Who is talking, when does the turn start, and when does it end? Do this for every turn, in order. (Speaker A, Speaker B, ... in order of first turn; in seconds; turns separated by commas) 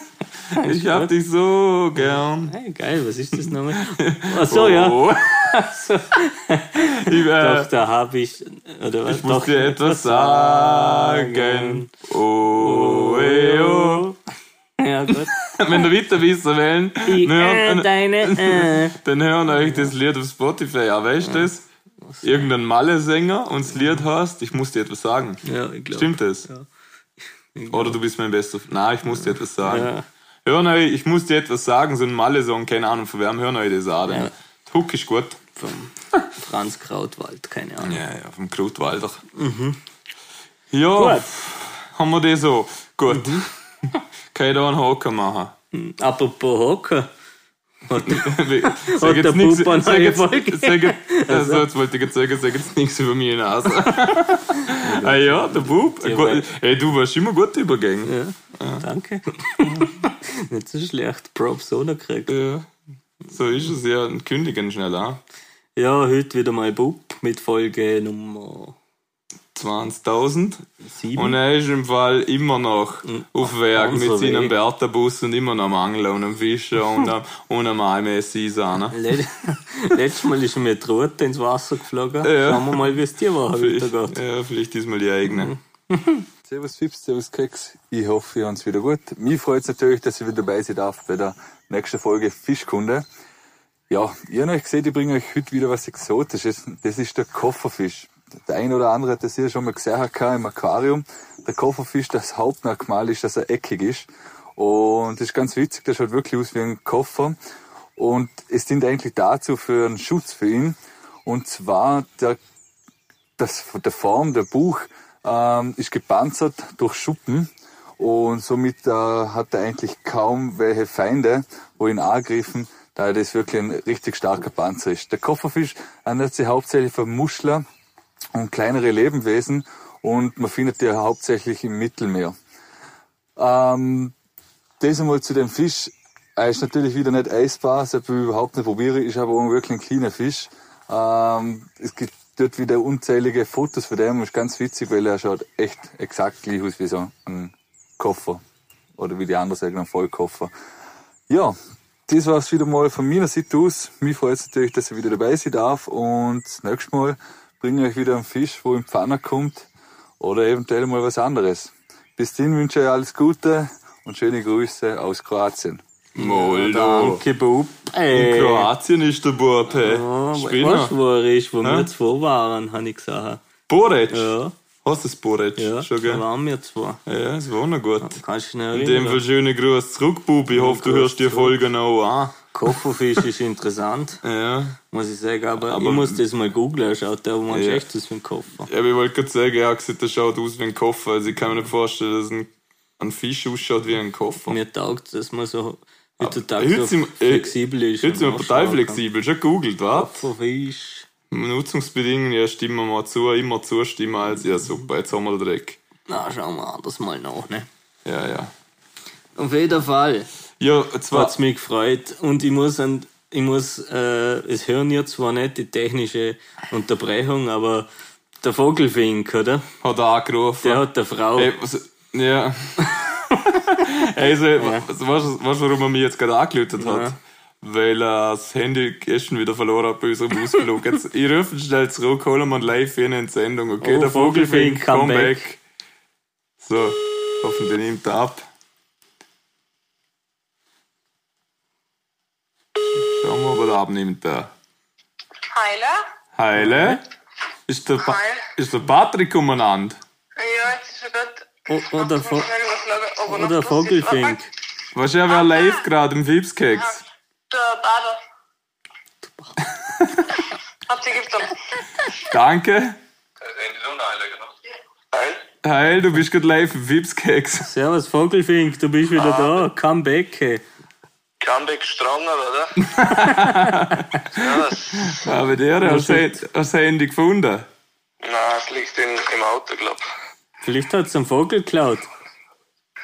Speaker A: 0.5-1.1, Speaker B: 0.6-2.5, Speaker A: 2.0-11.9, Speaker B: 3.5-5.5, Speaker B: 6.9-7.7, Speaker B: 9.1-14.1, Speaker A: 12.5-14.2, Speaker A: 14.8-15.4, Speaker B: 15.3-21.6, Speaker A: 17.1-18.9, Speaker A: 19.5-19.9, Speaker A: 21.2-21.5, Speaker A: 22.0-22.5, Speaker B: 22.2-26.5, Speaker A: 25.4-26.6, Speaker A: 27.5-28.0, Speaker B: 27.7-29.9, Speaker A: 29.1-30.0, Speaker B: 30.4-35.4, Speaker A: 34.0-34.3, Speaker A: 35.6-38.0, Speaker B: 37.8-39.2, Speaker A: 39.3-39.8, Speaker B: 40.7-45.5, Speaker A: 40.9-41.3, Speaker A: 43.1-43.5, Speaker A: 45.7-47.1, Speaker A: 47.9-51.6, Speaker B: 48.0-58.8, Speaker A: 54.6-56.5, Speaker A: 58.0-62.3, Speaker B: 62.3-62.7, Speaker B: 63.3-65.2, Speaker A: 65.8-68.8, Speaker B: 69.5-70.6, Speaker A: 70.8-71.4, Speaker B: 71.1-79.0, Speaker A: 73.0-74.5, Speaker A: 78.9-84.2, Speaker B: 82.2-82.9, Speaker B: 83.5-85.5, Speaker A: 85.3-86.2, Speaker C: 86.5-93.0, Speaker C: 93.9-107.4, Speaker C: 108.0-112.4, Speaker C: 113.4-127.6, Speaker C: 128.3-132.3, Speaker C: 133.3-134.1, Speaker C: 134.8-148.4, Speaker C: 149.0-150.5, Speaker C: 151.3-151.6, Speaker C: 152.1-159.7, Speaker C: 160.2-165.8, Speaker B: 166.2-167.2, Speaker A: 166.2-168.7, Speaker B: 168.1-170.9, Speaker A: 169.7-173.4, Speaker B: 171.6-171.9, Speaker B: 173.7-174.3, Speaker A: 174.1-174.5, Speaker B: 174.8-176.2, Speaker A: 175.6-177.0, Speaker B: 177.1-178.2, Speaker A: 178.0-179.2, Speaker B: 178.7-182.7, Speaker A: 180.5-181.6, Speaker A: 182.5-184.2, Speaker B: 184.2-184.8, Speaker A: 184.9-188.7, Speaker B: 185.6-186.2, Speaker B: 187.5-187.8, Speaker B: 188.7-194.6, Speaker A: 194.5-199.0, Speaker B: 196.2-200.3, Speaker A: 199.9-201.1, Speaker B: 201.3-205.8, Speaker A: 206.1-207.7, Speaker B: 208.0-208.5, Speaker A: 209.3-210.3, Speaker B: 210.6-211.3, Speaker A: 211.1-217.9, Speaker A: 218.4-219.6, Speaker B: 219.8-235.6, Speaker A: 220.6-221.5, Speaker A: 224.6-224.8, Speaker A: 226.8-227.2, Speaker A: 233.8-235.4, Speaker B: 236.6-238.5, Speaker B: 242.9-244.5, Speaker D: 245.5-246.0, Speaker B: 246.3-247.0, Speaker A: 246.5-247.0, Speaker B: 247.7-250.0, Speaker D: 248.0-248.5, Speaker D: 250.4-254.3, Speaker A: 251.7-252.6, Speaker A: 253.2-254.5, Speaker B: 254.9-257.0, Speaker D: 255.4-255.7, Speaker D: 257.5-258.2, Speaker A: 259.2-259.6, Speaker D: 260.9-261.5, Speaker B: 262.2-263.0, Speaker E: 263.4-264.5, Speaker E: 265.1-265.4, Speaker B: 265.6-267.7, Speaker A: 267.6-270.6, Speaker E: 269.1-269.6, Speaker E: 271.4-272.8, Speaker B: 272.8-277.7, Speaker A: 273.3-273.6, Speaker E: 274.3-275.2, Speaker A: 275.8-276.4, Speaker E: 278.2-280.0, Speaker A: 280.6-282.1